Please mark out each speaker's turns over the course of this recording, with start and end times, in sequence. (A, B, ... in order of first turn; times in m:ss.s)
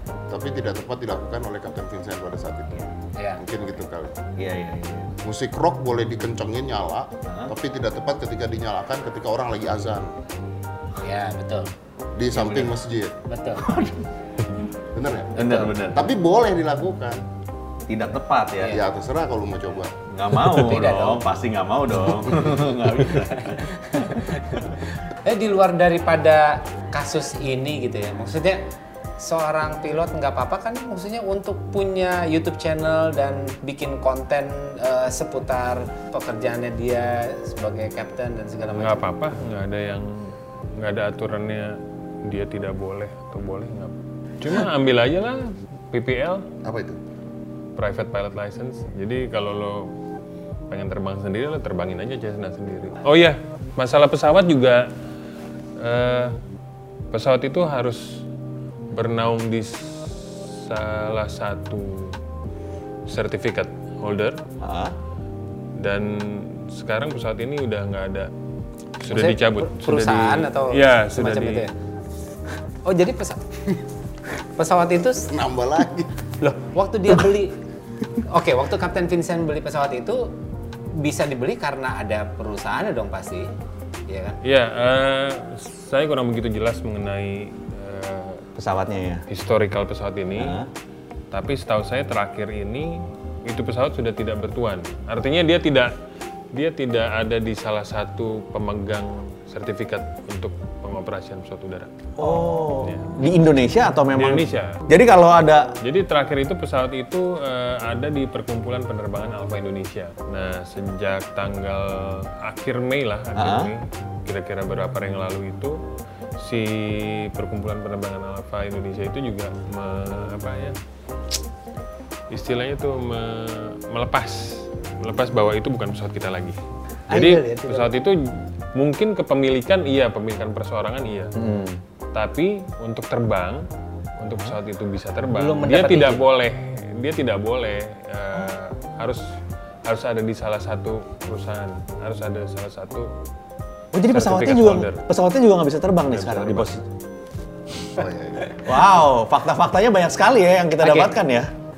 0:00.3-0:04.2 A
0:03.2-0:03.4 B
0:04.4-0:05.1 C
0:05.2-0:10.1 A
0:07.3-0:07.5 C
0:11.0-0:11.7 B
0:12.2-0:13.2 A
0:12.3-0:12.7 B
0:13.3-0:13.6 B
0:13.6-0:14.0 C
0:14.9-0:17.2 A
0:15.4-0:16.1 C
0:17.9-0:18.8 C
0:18.7-0:19.9 A
0:20.1-0:23.8 C
0:20.4-0:21.2 B
0:23.1-0:28.6 B
0:29.2-0:39.0 B
0:38.7-0:41.7 D
0:42.3-0:46.4 D
0:46.6-0:47.0 A
0:47.8-0:49.9 D
0:50.7-0:54.9 D
0:55.8-0:56.3 D
0:57.1-0:58.2 D
0:58.9-1:02.2 D
1:03.1-1:04.4 D
1:04.6-1:04.9 C
1:05.8-1:08.3 D
1:09.0-1:11.7 D
1:09.1-1:11.7 B
1:12.8-1:13.8 B
1:14.4-1:15.3 B
1:15.3-1:16.1 A
1:16.4-1:17.6 B
1:18.3-1:20.3 B
1:21.0-1:23.5 B
1:24.1-1:24.4 B
1:24.4-1:28.4 D
1:28.6-1:29.3 C
1:29.3-1:30.6 D
1:30.4-1:30.7 C
1:31.3-1:32.9 D
1:33.4-1:35.9 D
1:36.5-1:41.9 D
1:42.2-1:45.7 C
1:42.8-1:43.2 D
1:44.1-1:44.8 D
1:45.8-1:55.8 D
1:53.4-1:53.7 C
1:56.4-2:00.8 D
2:02.3-2:06.6 D
2:07.1-2:08.0 B
2:07.1-2:08.2 D
2:08.8-2:11.3 D
2:11.4-2:11.8 C
2:12.1-2:13.6 D
2:14.2-2:19.2 D
2:15.3-2:16.2 B
2:19.9-2:23.1 D
2:23.9-2:26.8 C
2:24.1-2:25.0 D
2:26.1-2:26.8 D
2:27.9-2:28.6 A
2:28.6-2:31.5 C
2:30.8-2:31.2 B